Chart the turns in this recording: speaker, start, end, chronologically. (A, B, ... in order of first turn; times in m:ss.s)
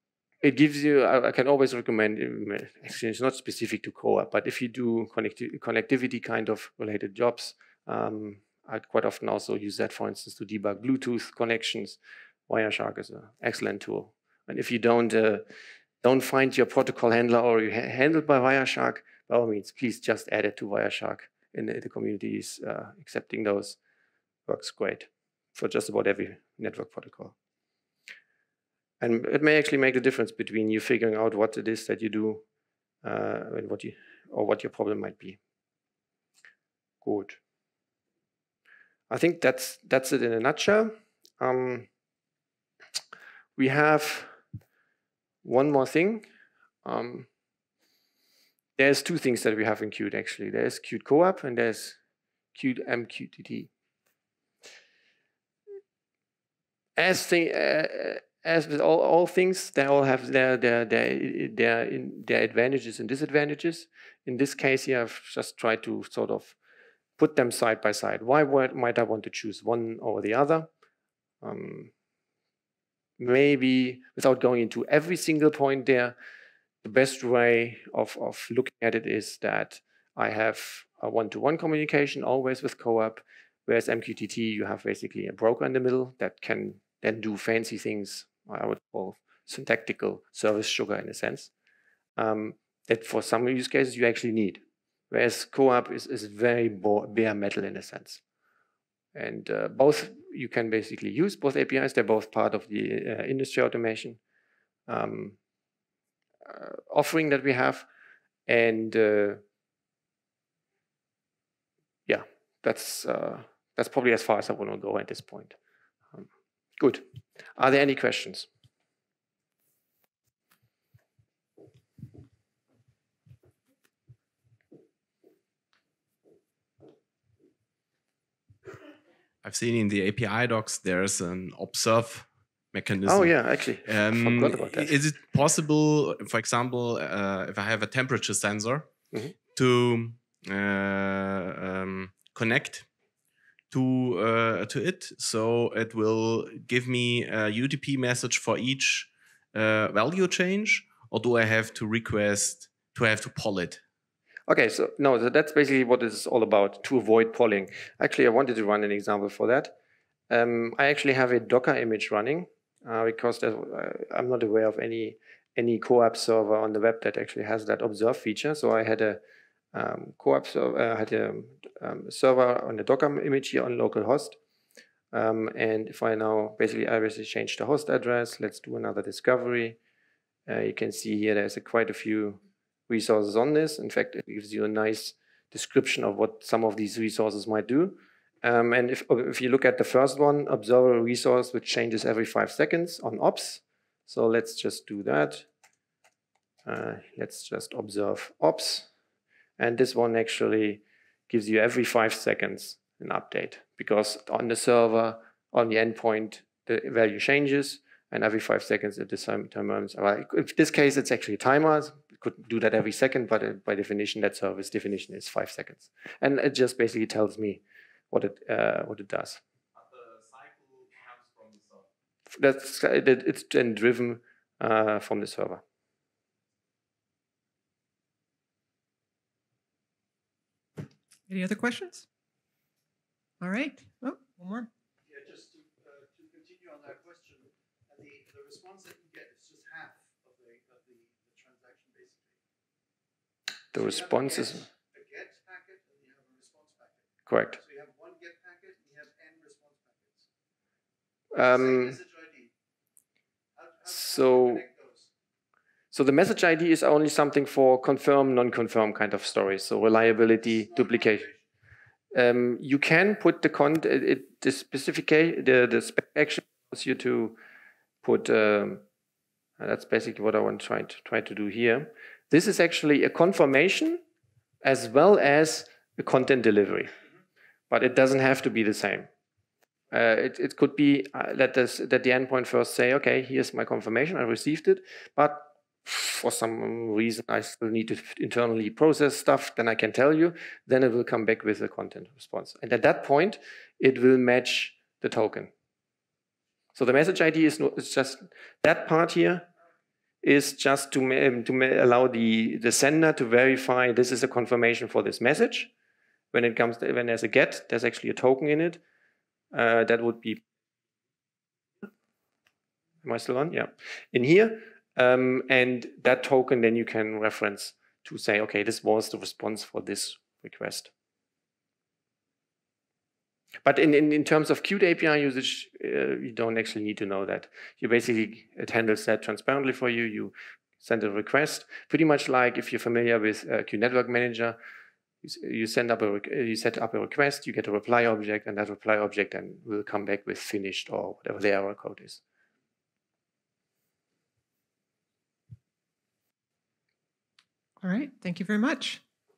0:00.4-0:15.5 A
0:16.0-0:23.8 A
0:24.5-0:27.4 A
0:29.0-0:32.4 A
0:33.0-0:35.4 A
0:37.0-0:37.4 A
0:39.1-0:41.9 A
0:43.6-0:44.4 A
0:45.4-0:46.3 A
0:46.8-0:47.3 A
0:48.8-0:52.0 A
0:52.5-0:53.7 A
0:57.0-1:06.6 A
1:07.2-1:10.7 A
1:11.4-1:11.9 A
1:13.2-1:16.2 A
1:16.8-1:31.5 A
1:32.2-1:38.2 A
1:39.1-1:44.2 A
1:44.9-1:45.4 A
1:46.5-1:47.9 A
1:48.5-1:49.4 A
1:52.1-1:55.6 A
1:56.8-1:57.0 A
1:57.6-1:58.5 A
2:09.4-2:18.9 B
2:13.1-2:15.0 A
2:19.5-2:22.9 B
2:23.7-2:33.8 B
2:34.5-2:39.8 A
2:40.3-2:49.2 A
2:49.7-2:54.4 A
2:55.1-2:59.8 A
3:00.5-3:15.5 A
3:16.6-3:18.9 A
3:19.6-3:39.4 A
3:40.1-3:41.8 B
3:42.3-3:45.6 A
3:51.3-3:52.0 C
3:53.4-3:54.7 C
3:55.1-4:02.4 D
4:03.7-4:04.6 A
4:03.7-4:10.3 D
4:07.3-4:07.6 A
4:11.3-4:12.0 A
4:11.4-4:12.5 D
4:13.6-4:15.1 D
4:13.9-4:14.6 A
4:15.9-4:21.3 A
4:20.5-4:21.4 D
4:22.1-4:27.4 A
4:28.0-4:28.8 A
4:29.6-4:34.0 A
4:34.6-4:36.9 A
4:37.7-4:39.1 A
4:39.9-4:55.5 A
4:56.8-4:59.5 A
5:00.2-5:05.7 A
5:06.3-5:08.8 A
5:09.5-5:10.4 A
5:13.0-5:20.9 A
5:23.6-5:34.6 A
5:35.2-5:42.2 A
5:47.8-5:49.0 C